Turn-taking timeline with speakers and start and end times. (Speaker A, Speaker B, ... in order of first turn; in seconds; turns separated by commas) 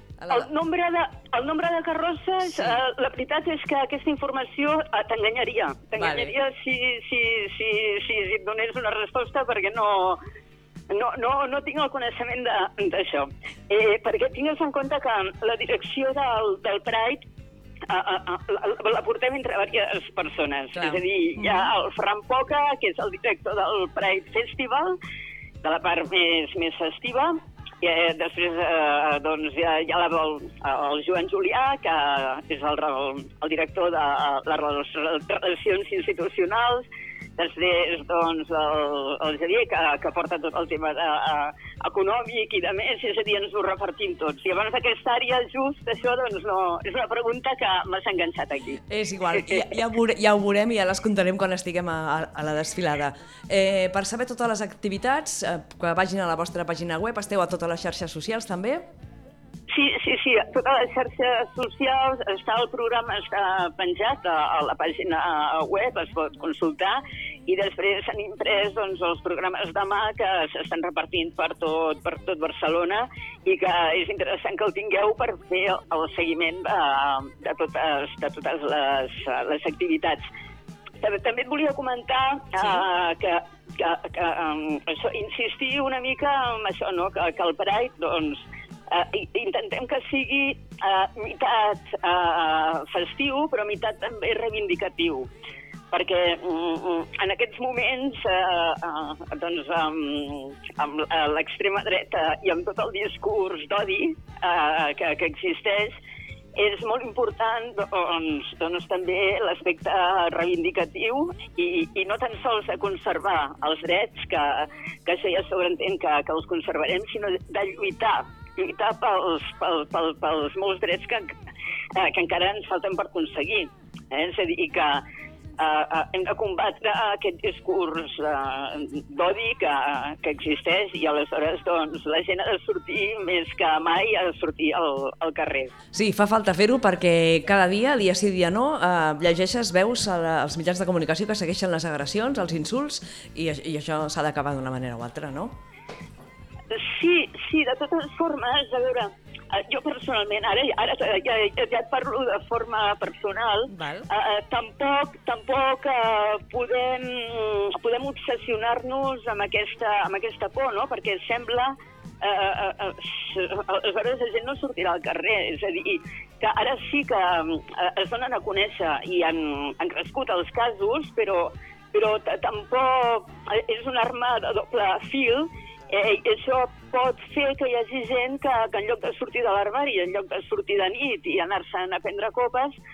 Speaker A: 0.2-0.5, Speaker B: 0.3-10.2, Speaker A: 2.4-2.8, Speaker A: 6.0-6.3, Speaker B: 10.9-17.2, Speaker B: 17.9-24.9, Speaker A: 20.7-21.7, Speaker B: 25.6-48.8, Speaker A: 48.9-58.9, Speaker B: 49.3-49.7, Speaker B: 59.7-80.2, Speaker B: 81.0-95.3, Speaker A: 82.6-82.8, Speaker B: 95.9-106.0, Speaker B: 106.5-121.3, Speaker B: 121.9-125.0, Speaker B: 125.6-135.7, Speaker A: 135.9-145.6, Speaker B: 146.7-182.8, Speaker A: 153.7-154.1